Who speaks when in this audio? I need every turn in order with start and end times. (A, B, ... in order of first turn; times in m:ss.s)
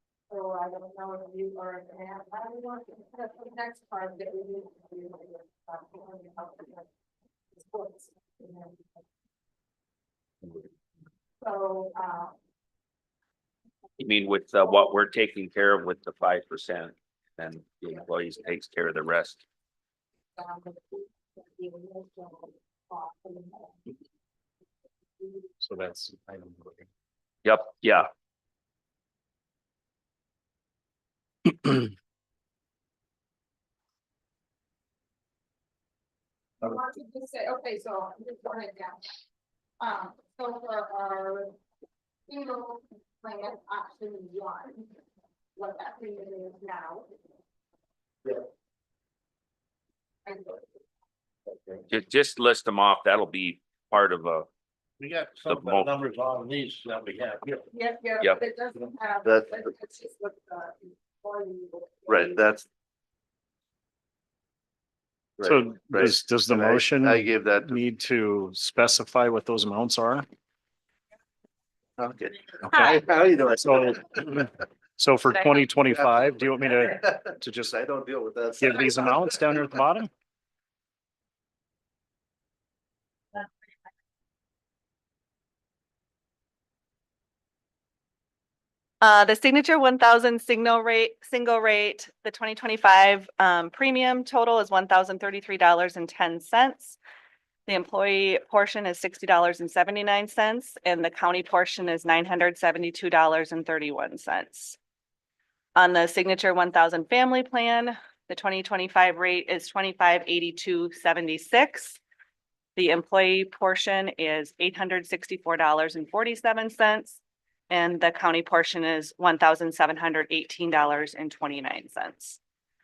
0:00.3-0:06.8 A
0:07.5-0:09.0 A
0:11.4-0:12.3 A
0:14.0-0:19.4 B
0:20.4-0:23.8 A
0:25.2-0:25.5 A
0:25.6-0:26.8 C
0:27.4-0:28.1 B
0:36.6-0:39.0 A
0:39.8-0:41.5 A
0:42.3-0:44.8 A
0:45.6-0:47.0 A
0:50.2-0:50.7 A
0:51.9-0:54.5 B
0:55.0-0:57.6 D
0:55.4-0:55.9 B
0:57.7-1:02.5 A
0:59.2-0:59.7 E
1:02.1-1:02.6 E
1:05.4-1:07.8 E
1:05.4-1:10.2 C
1:12.0-1:14.4 E
1:12.7-1:12.9 C
1:13.5-1:17.7 C
1:15.9-1:19.7 E
1:18.6-1:20.1 C
1:29.0-1:37.0 F
1:37.7-1:44.8 F
1:45.8-1:52.0 F
1:52.8-2:02.4 F